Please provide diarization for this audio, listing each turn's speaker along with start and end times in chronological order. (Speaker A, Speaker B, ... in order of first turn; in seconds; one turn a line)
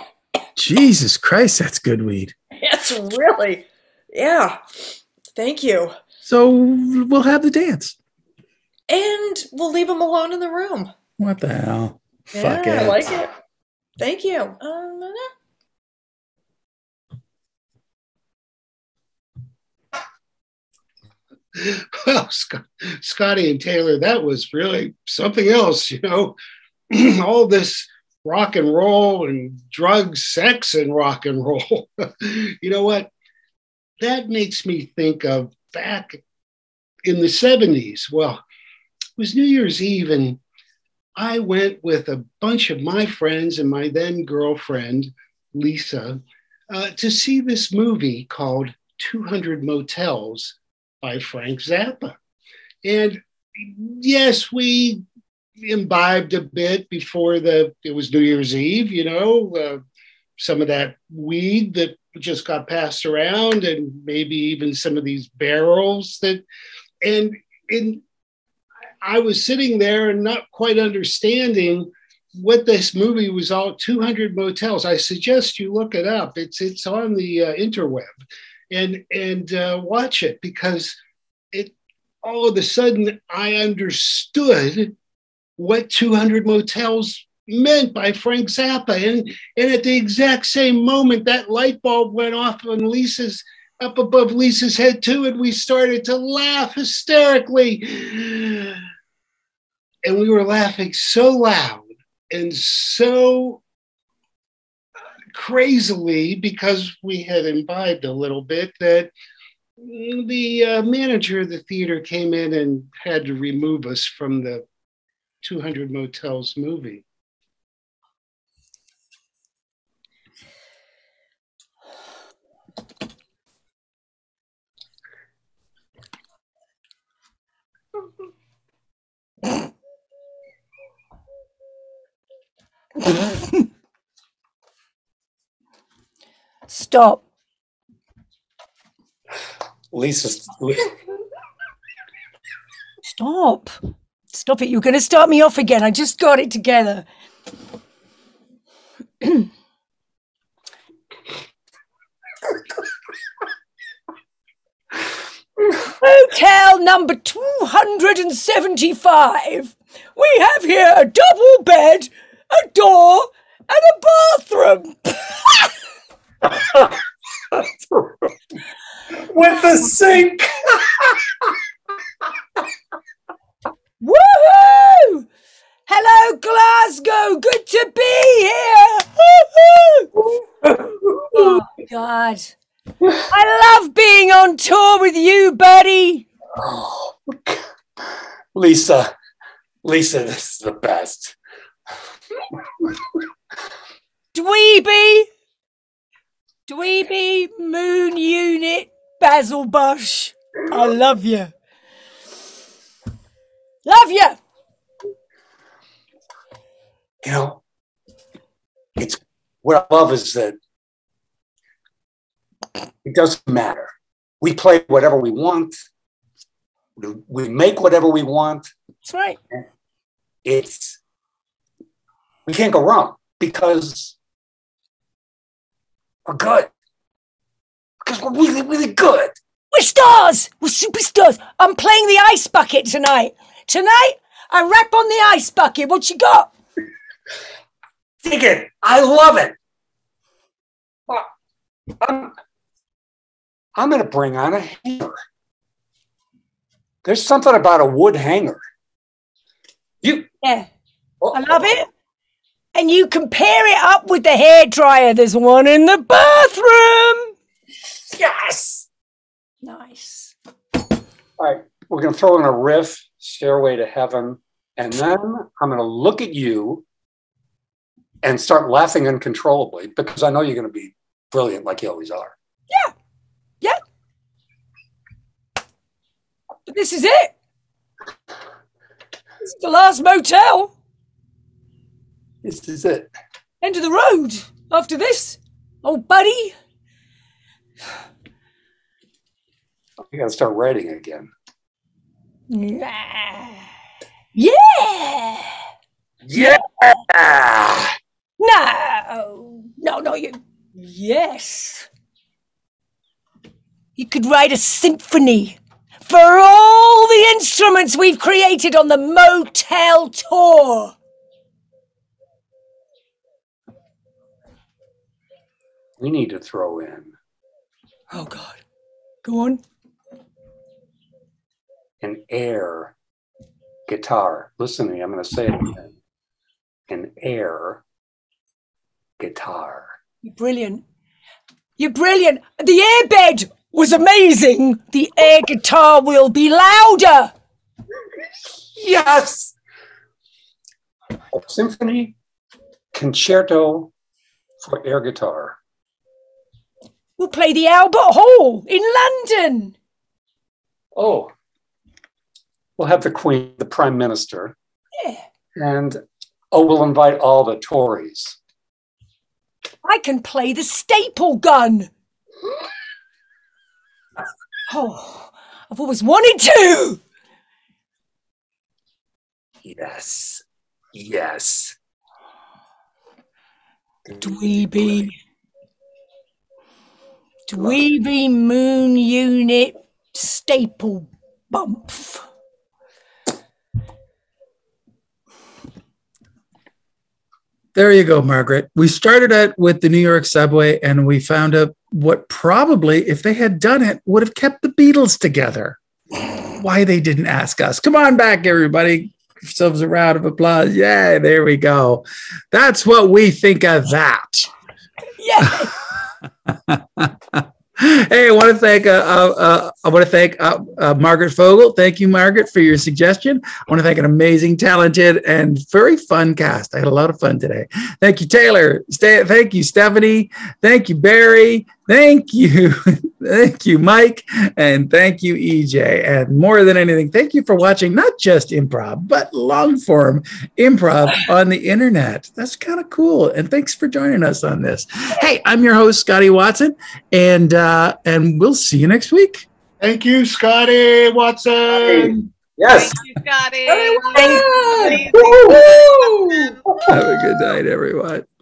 Speaker A: 0.6-2.3
Speaker B: 2.6-4.6
Speaker B: 5.3-5.9
Speaker A: 6.2-8.0
Speaker B: 8.9-10.9
Speaker A: 11.2-13.1
Speaker B: 12.3-13.3
Speaker B: 14.0-15.3
Speaker C: 21.5-26.4
Speaker C: 26.9-33.1
Speaker C: 34.0-36.2
Speaker C: 37.0-38.4
Speaker C: 39.2-40.4
Speaker C: 41.2-46.2
Speaker C: 46.7-52.1
Speaker C: 52.8-55.0
Speaker C: 55.6-59.8
Speaker C: 60.4-66.4
Speaker C: 67.0-68.0
Speaker C: 69.0-78.2
Speaker C: 78.7-81.0
Speaker C: 81.5-84.9
Speaker C: 85.6-98.8
Speaker C: 100.0-103.6
Speaker C: 105.3-109.1
Speaker C: 109.8-114.6
Speaker C: 115.4-117.0
Speaker D: 133.1-133.6
Speaker D: 136.7-137.2
Speaker E: 139.9-140.9
Speaker D: 143.0-143.8
Speaker D: 144.3-147.0
Speaker D: 149.2-149.5
Speaker D: 156.0-165.7
Speaker E: 166.5-167.0
Speaker E: 167.5-168.3
Speaker E: 169.2-171.2
Speaker D: 174.0-175.2
Speaker D: 175.9-180.1
Speaker E: 180.6-181.5
Speaker D: 181.3-182.5
Speaker D: 183.3-186.2
Speaker E: 186.6-187.6
Speaker E: 188.5-189.1
Speaker E: 189.8-191.4
Speaker D: 194.3-195.3
Speaker D: 196.7-201.5
Speaker D: 203.8-204.4
Speaker E: 207.2-207.6
Speaker E: 209.0-210.6
Speaker E: 213.0-215.8
Speaker E: 217.0-218.7
Speaker D: 219.0-219.4
Speaker E: 220.4-221.0
Speaker E: 222.4-224.2
Speaker E: 226.3-226.7
Speaker E: 228.0-229.4
Speaker D: 229.7-236.5
Speaker E: 238.2-239.6
Speaker E: 242.0-242.3
Speaker E: 243.7-245.1
Speaker E: 247.0-248.6
Speaker E: 250.0-250.3
Speaker D: 250.4-250.7
Speaker E: 251.2-251.6
Speaker D: 251.3-251.9
Speaker D: 252.7-257.3
Speaker E: 258.1-258.9
Speaker D: 259.6-260.3
Speaker E: 261.4-266.8
Speaker E: 268.2-272.3
Speaker D: 276.7-277.3
Speaker D: 279.4-280.7
Speaker E: 282.4-283.1
Speaker D: 283.6-286.5
Speaker E: 290.1-291.3
Speaker D: 292.5-293.7
Speaker D: 294.3-295.6
Speaker E: 296.2-297.9
Speaker D: 298.4-301.9
Speaker D: 304.0-310.9
Speaker E: 316.0-317.1
Speaker D: 318.1-318.6
Speaker D: 319.2-319.6
Speaker E: 322.0-322.9
Speaker E: 323.9-325.9
Speaker E: 326.9-327.8
Speaker E: 329.2-330.0
Speaker D: 330.2-330.8
Speaker D: 331.8-337.3
Speaker E: 338.8-339.5
Speaker E: 341.3-342.1
Speaker E: 342.9-343.9
Speaker E: 344.6-345.6
Speaker D: 347.2-349.7
Speaker E: 350.9-351.3
Speaker E: 352.8-354.6
Speaker E: 355.6-356.0
Speaker E: 356.5-358.4
Speaker D: 359.8-361.9
Speaker D: 364.7-367.0
Speaker E: 369.6-370.4
Speaker E: 370.9-371.8
Speaker E: 374.1-375.1
Speaker D: 374.2-375.1
Speaker D: 377.5-382.2
Speaker A: 387.7-395.8
Speaker A: 396.4-404.5
Speaker D: 405.2-405.7
Speaker A: 406.5-439.4
Speaker C: 439.8-442.2
Speaker E: 441.7-443.0
Speaker F: 442.6-446.5
Speaker B: 443.7-446.6
Speaker E: 445.1-445.7
Speaker A: 446.9-448.3